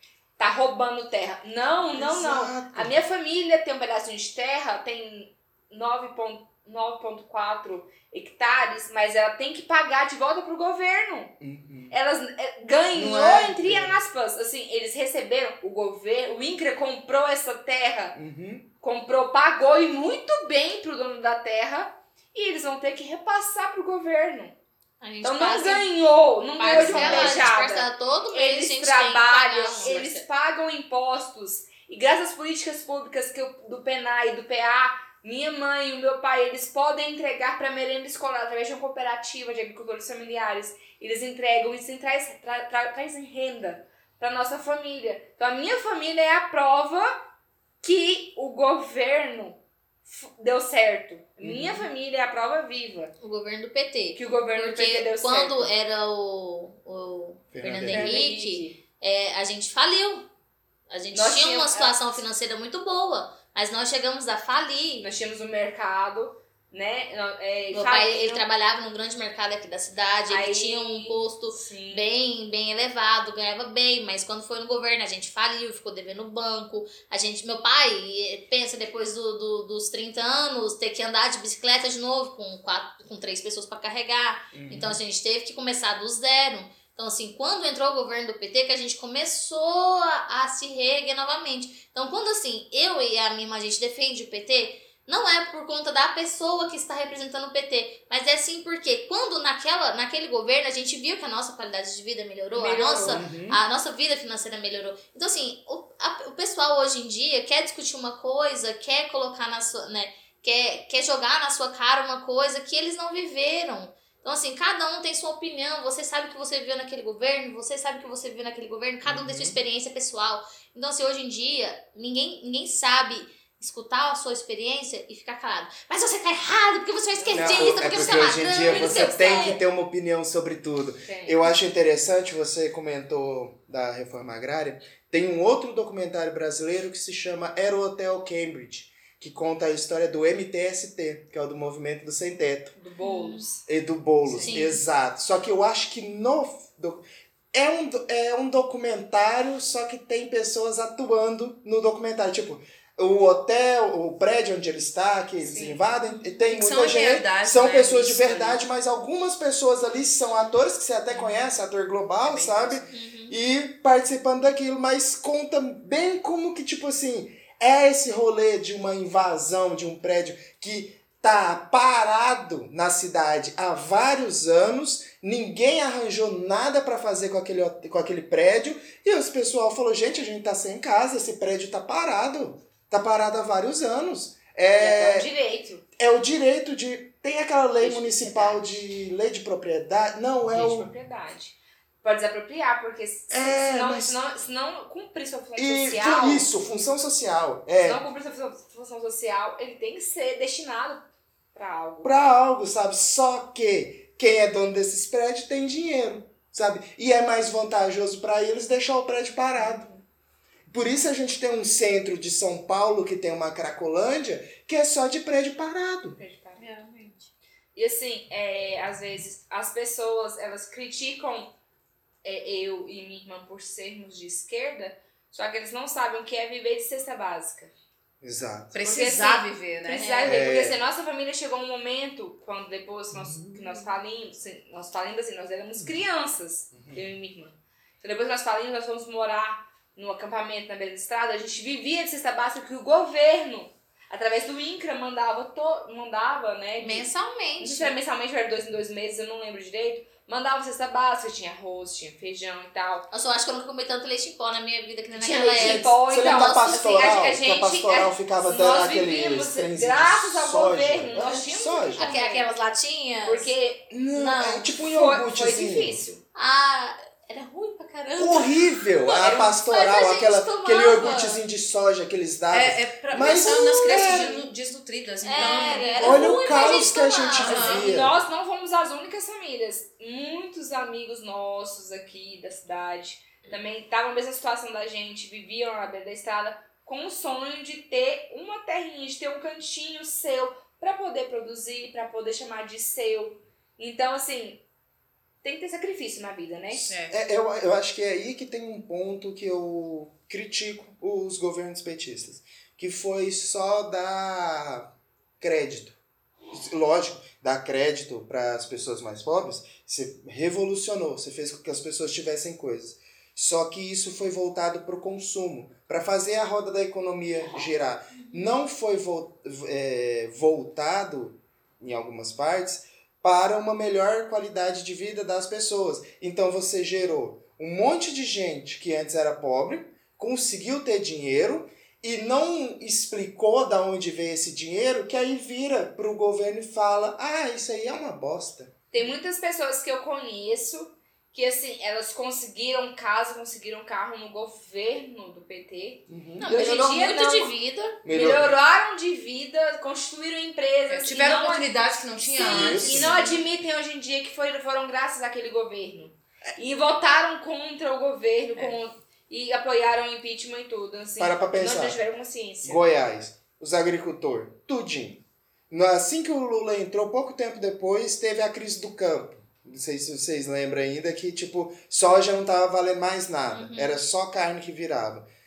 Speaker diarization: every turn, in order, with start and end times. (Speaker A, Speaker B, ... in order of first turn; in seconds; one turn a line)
Speaker A: 0.4-11.3
Speaker B: 1.9-2.9
Speaker B: 11.4-11.9
Speaker A: 11.9-18.2
Speaker B: 12.9-14.0
Speaker B: 18.1-18.7
Speaker A: 18.8-24.5
Speaker C: 25.0-25.9
Speaker A: 25.2-47.2
Speaker C: 26.6-30.2
Speaker B: 26.7-27.5
Speaker A: 47.8-53.1
Speaker B: 51.4-51.9
Speaker C: 53.2-60.2
Speaker A: 54.1-55.7
Speaker B: 57.5-58.1
Speaker A: 57.9-58.8
Speaker C: 60.9-65.0
Speaker A: 61.1-62.0
Speaker A: 65.0-68.4
Speaker C: 67.7-129.6
Speaker A: 70.3-72.1
Speaker B: 84.5-85.0
Speaker A: 102.5-103.2
Speaker B: 103.0-103.6
Speaker B: 119.0-119.6
Speaker A: 127.1-129.6
Speaker B: 127.3-142.7
Speaker A: 131.0-131.5
Speaker A: 142.8-143.6
Speaker C: 143.0-143.4
Speaker B: 143.7-185.3
Speaker C: 144.4-144.8
Speaker A: 155.4-155.8
Speaker D: 156.5-158.6
Speaker D: 162.2-162.9
Speaker C: 162.9-163.4
Speaker A: 184.7-185.8
Speaker B: 186.0-190.9
Speaker A: 187.8-188.6
Speaker A: 190.5-196.5
Speaker B: 193.3-194.2
Speaker B: 195.6-198.0
Speaker A: 197.8-201.0
Speaker A: 201.5-202.1
Speaker B: 202.0-209.9
Speaker A: 209.6-210.0
Speaker B: 210.7-216.2
Speaker A: 216.2-216.6
Speaker C: 216.6-217.3
Speaker A: 217.7-221.5
Speaker A: 222.2-227.7
Speaker B: 228.2-228.7
Speaker D: 228.7-230.3
Speaker A: 228.8-247.1
Speaker B: 230.2-230.8
Speaker B: 233.1-233.6
Speaker B: 235.8-236.0
Speaker B: 236.7-237.0
Speaker C: 246.8-248.0
Speaker A: 247.6-253.1
Speaker C: 253.1-257.1
Speaker A: 255.2-262.5
Speaker B: 255.5-262.1
Speaker C: 262.0-263.5
Speaker A: 263.2-263.9
Speaker B: 263.9-266.0
Speaker C: 264.1-264.6
Speaker A: 264.8-266.2
Speaker C: 266.3-271.4
Speaker B: 268.1-274.4
Speaker A: 269.2-269.5
Speaker D: 272.5-276.2
Speaker A: 274.0-274.4
Speaker C: 275.2-277.8
Speaker A: 275.4-294.6
Speaker B: 275.9-278.2
Speaker D: 277.4-277.8
Speaker A: 295.4-296.9
Speaker D: 296.9-297.1
Speaker B: 296.9-306.0
Speaker B: 306.5-338.8
Speaker A: 338.9-347.5
Speaker B: 346.1-346.6
Speaker C: 346.4-348.0
Speaker B: 348.0-348.5
Speaker A: 348.1-351.7
Speaker D: 350.9-353.0
Speaker A: 352.3-362.8
Speaker B: 352.4-353.1
Speaker C: 352.9-353.4
Speaker B: 361.2-362.0
Speaker B: 362.6-375.2
Speaker C: 373.5-373.9